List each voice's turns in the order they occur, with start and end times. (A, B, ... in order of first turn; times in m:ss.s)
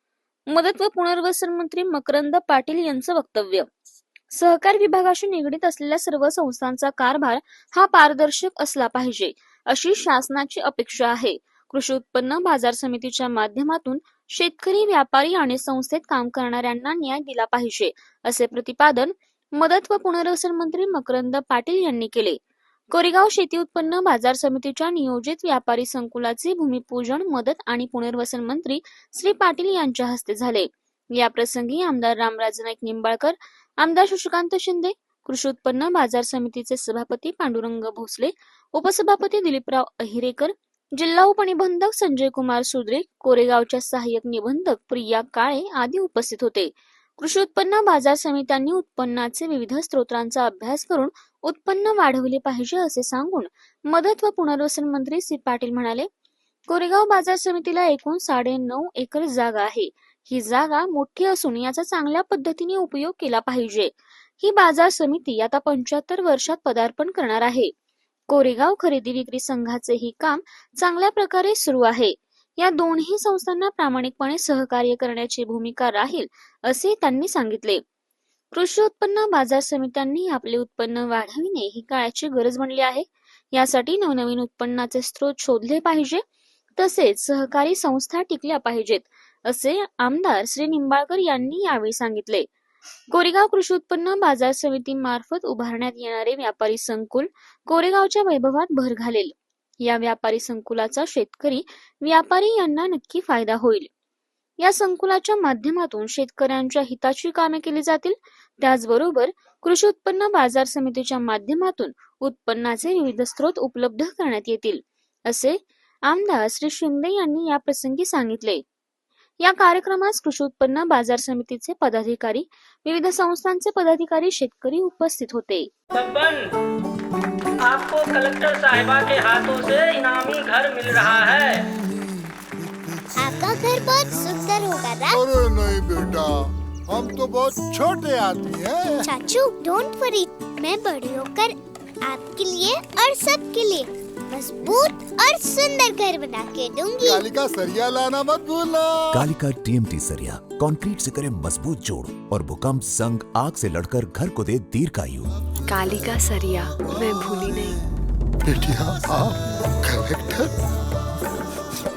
0:00.5-0:03.7 A
0:04.3-0:22.4 A
0:22.9-0:56.1 A
0:56.7-1:07.7 A
1:08.3-1:17.8 A
1:18.5-1:26.2 A
1:26.8-1:32.5 A
1:33.1-1:43.9 A
1:44.6-1:58.6 A
1:59.4-2:05.7 A
2:06.0-2:06.5 B
2:07.6-2:11.6 B
2:13.2-2:15.2 C
2:15.1-2:19.1 D
2:19.0-2:27.2 C
2:27.0-2:29.2 D
2:29.1-2:35.3 E
2:35.7-2:37.8 F
2:38.4-2:40.5 D